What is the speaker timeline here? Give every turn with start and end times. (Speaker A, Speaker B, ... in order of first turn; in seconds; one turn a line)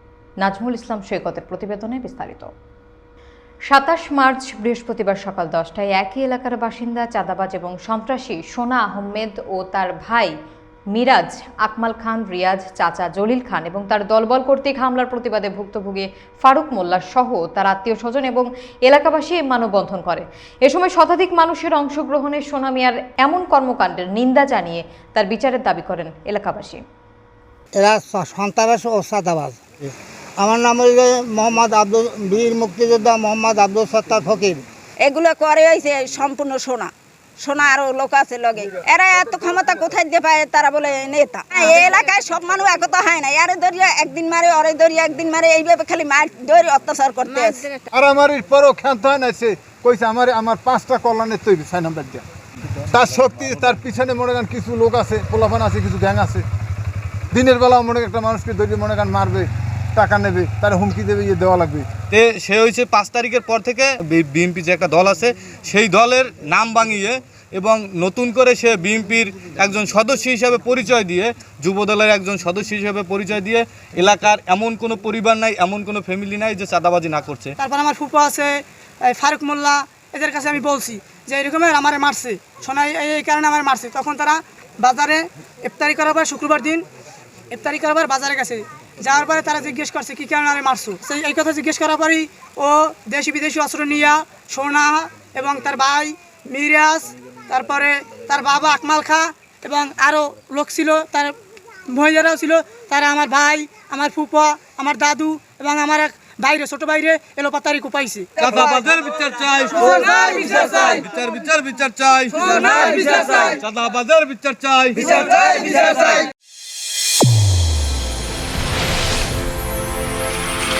Speaker A: 0.4-2.5
Speaker A: 3.7-10.3
Speaker A: 10.9-26.8
Speaker B: 27.7-34.6
Speaker C: 35.0-47.7
Speaker D: 47.9-52.2
Speaker D: 52.9-56.4
Speaker D: 57.3-61.9
Speaker E: 62.1-77.5
Speaker F: 77.6-86.8
Speaker F: 87.5-101.3
Speaker F: 101.9-108.3
Speaker E: 108.4-116.2